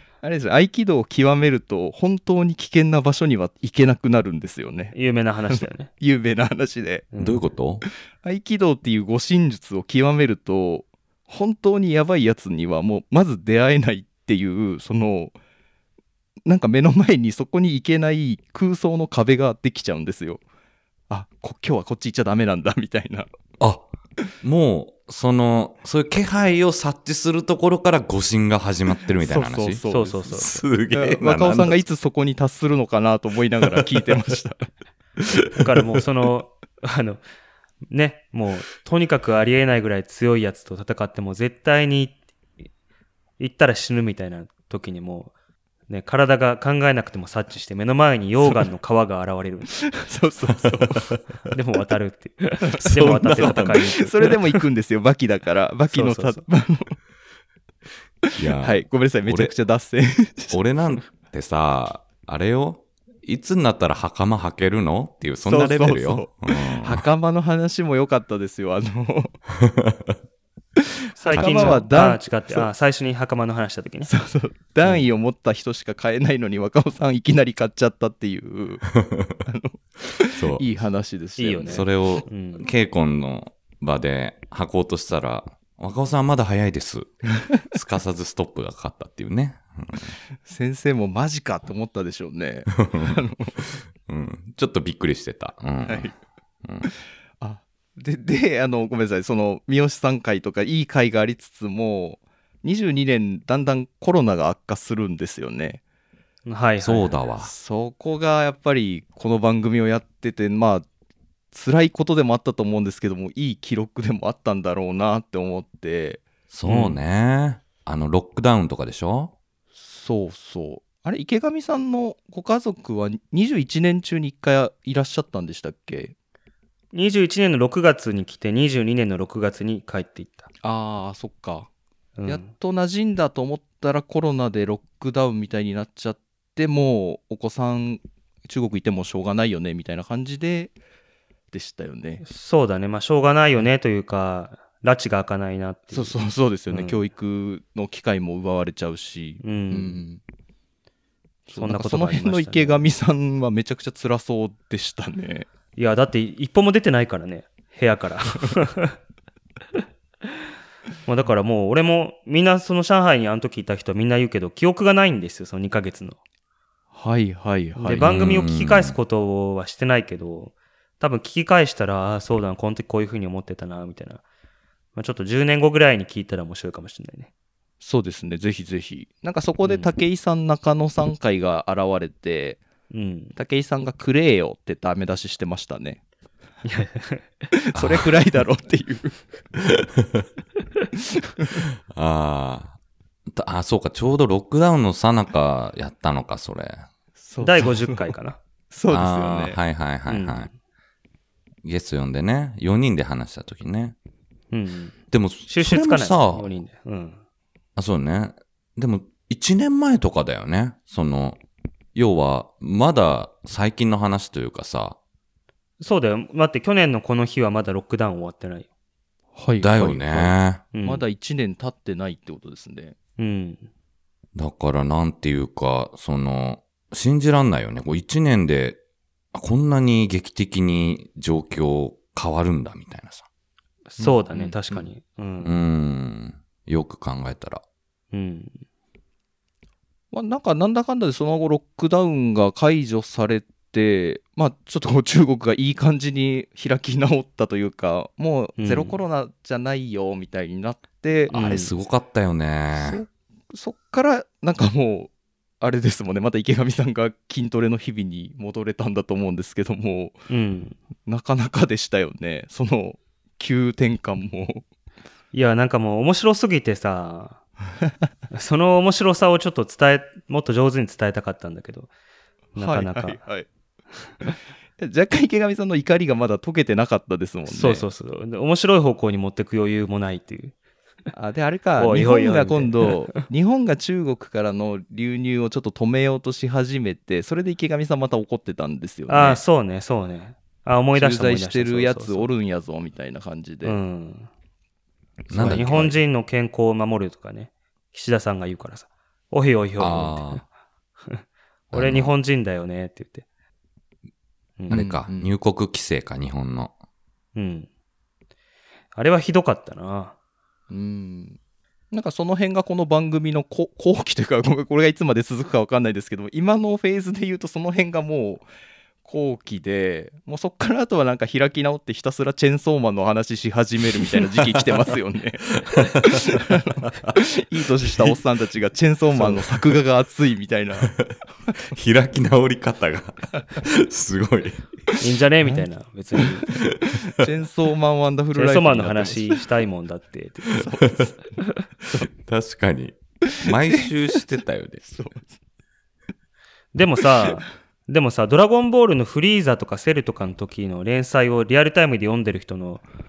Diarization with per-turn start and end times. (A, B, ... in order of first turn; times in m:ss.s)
0:00.2-0:05.0 A
0:04.9-0:05.9 B
0:05.5-0:07.1 A
0:07.1-0:07.4 B
0:07.2-0:07.8 C
0:08.2-0:15.4 A
0:16.5-0:20.4 A
0:21.1-0:23.3 A
0:23.6-0:23.9 C
0:24.4-0:31.8 C
0:29.2-0:34.7 A
0:29.9-0:30.6 B
0:35.6-0:37.2 B
0:37.9-0:42.2 B
0:43.4-0:45.3 B
0:45.9-0:49.7 B
0:49.7-0:51.2 A
0:50.6-0:51.1 C
0:51.5-0:54.4 B
0:52.8-0:57.0 A
0:52.9-0:53.7 C
0:55.9-0:56.4 B
0:58.3-1:00.6 A
0:58.4-0:59.5 C
1:00.5-1:07.1 C
1:05.4-1:09.4 A
1:09.5-1:10.2 C
1:10.8-1:12.7 A
1:11.2-1:14.1 B
1:11.3-1:11.8 C
1:14.1-1:18.9 A
1:18.9-1:19.4 C
1:19.5-1:21.9 A
1:20.3-1:20.6 C
1:21.4-1:22.7 B
1:21.7-1:30.2 C
1:30.5-1:33.7 A
1:32.8-1:33.2 C
1:34.1-1:36.1 C
1:35.9-1:36.2 A
1:37.4-1:45.8 A
1:46.5-1:47.1 B
1:46.8-1:47.5 C
1:47.4-1:50.9 A
1:51.5-1:56.2 A
1:56.5-1:59.3 C
1:56.6-1:57.0 B
1:59.8-2:06.1 A
2:06.9-2:10.5 B
2:10.6-2:11.7 A
2:12.2-2:12.5 B
2:12.3-2:20.7 A
2:21.5-2:22.2 A
2:22.2-2:26.2 B
2:25.9-2:30.2 A
2:26.7-2:27.0 B
2:29.4-2:30.0 B
2:31.5-2:35.5 A
2:31.6-2:32.9 B
2:35.8-2:39.0 B
2:41.1-2:46.2 B
2:46.9-2:48.0 A
2:47.8-2:54.2 B
2:48.0-2:49.0 C
2:55.0-2:57.3 B
2:57.8-3:02.6 A
2:59.6-2:59.9 B
3:02.9-3:03.4 B
3:03.4-3:06.0 A
3:06.6-3:07.5 B
3:07.5-3:09.9 A
3:07.8-3:08.1 C
3:10.0-3:10.3 C
3:11.3-3:11.7 A
3:11.9-3:12.8 C
3:13.3-3:16.9 C
3:17.2-3:18.1 A
3:17.4-3:18.4 B
3:18.7-3:19.6 A
3:18.9-3:20.5 C
3:20.1-3:20.5 B
3:21.6-3:24.0 C
3:24.5-3:27.2 B
3:25.1-3:26.5 C
3:27.8-3:31.4 C
3:32.0-3:35.0 C
3:35.8-3:38.7 B
3:39.4-3:43.0 A
3:39.6-3:40.6 C
3:40.7-3:41.0 B
3:43.2-3:43.7 B
3:44.4-3:48.8 C
3:49.3-3:53.3 C
3:53.9-3:55.6 B
3:54.0-3:54.9 A
3:55.4-3:57.6 C
3:58.1-3:58.6 B
4:00.1-4:11.7 A
4:08.6-4:09.0 B
4:11.3-4:11.7 B
4:11.4-4:13.0 C
4:12.7-4:20.2 A
4:20.3-4:20.8 B
4:21.1-4:24.6 A
4:25.3-4:27.4 B
4:28.3-4:31.9 B
4:32.6-4:33.2 B
4:32.6-4:33.5 A
4:34.2-4:37.9 A
4:37.5-4:40.5 B
4:41.1-4:49.4 A
4:41.8-4:43.2 B
4:49.1-4:52.3 B
4:50.9-4:53.8 A
4:53.6-4:54.3 B
4:55.3-4:55.8 A
4:55.3-4:56.0 C
4:55.4-5:00.4 B
4:59.8-5:00.4 C
5:01.1-5:03.2 B
5:01.7-5:02.1 C
5:04.7-5:05.3 A
5:04.7-5:06.7 C
5:07.4-5:07.7 B
5:09.0-5:10.1 B
5:10.7-5:11.4 A
5:11.9-5:18.5 A
5:19.0-5:31.0 A
5:24.4-5:24.9 C
5:25.6-5:27.1 C
5:27.9-5:28.2 C
5:30.9-5:34.7 C
5:35.0-5:36.6 B
5:36.5-5:37.0 C
5:37.0-5:39.4 A
5:38.3-5:40.7 B
5:40.6-5:41.1 A
5:42.1-5:44.8 C
5:43.3-5:43.9 A
5:44.9-5:45.4 A
5:46.7-5:52.8 B